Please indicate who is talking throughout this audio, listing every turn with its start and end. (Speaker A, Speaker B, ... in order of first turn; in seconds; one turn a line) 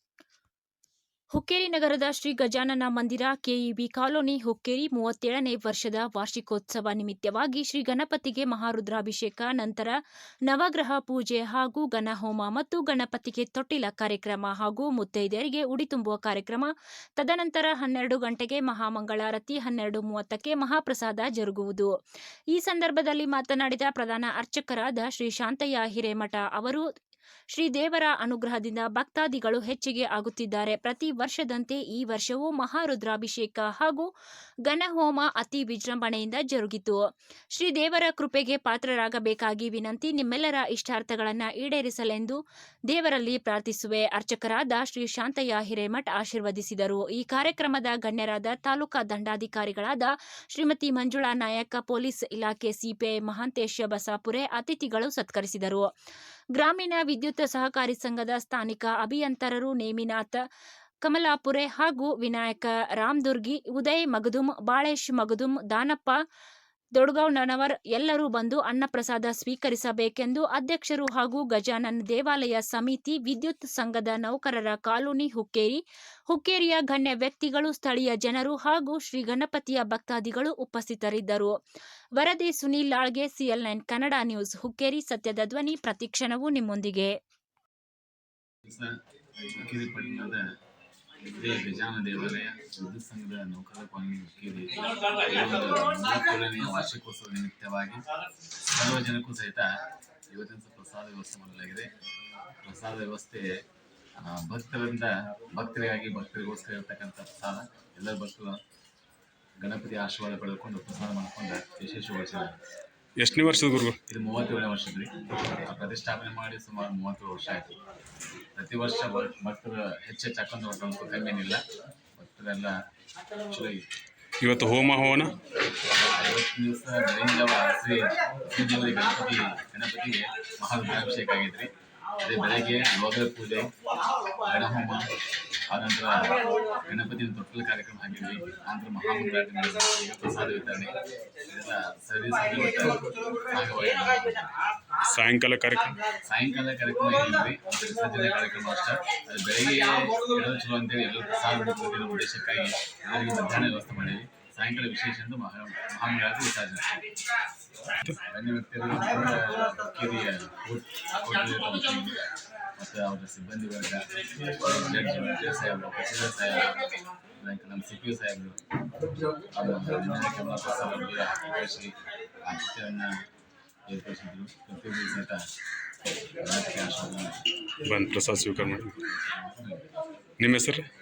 Speaker A: 1.3-21.9
Speaker A: 22.5-26.9
Speaker A: 27.5-34.1
Speaker A: 34.6-55.9
Speaker A: 56.5-60.5
Speaker A: 61.0-66.2
Speaker A: 66.9-81.5
Speaker A: 82.2-87.2
Speaker B: 88.7-90.5
Speaker B: 91.2-98.0
Speaker B: 98.7-99.7
Speaker B: 100.3-101.9
Speaker B: 102.6-103.6
Speaker B: 104.2-108.6
Speaker B: 109.6-112.6
Speaker C: 113.2-114.0
Speaker B: 114.1-117.8
Speaker B: 118.5-121.6
Speaker B: 122.2-122.8
Speaker B: 123.3-123.8
Speaker C: 124.4-125.3
Speaker B: 125.8-133.7
Speaker B: 134.4-135.1
Speaker B: 135.7-144.5
Speaker C: 145.0-146.0
Speaker B: 146.2-157.0
Speaker B: 158.3-162.2
Speaker B: 162.8-168.6
Speaker B: 169.5-173.2
Speaker B: 173.9-175.4
Speaker B: 176.4-177.5
Speaker C: 177.8-179.0
Speaker B: 179.1-179.9
Speaker C: 180.4-180.9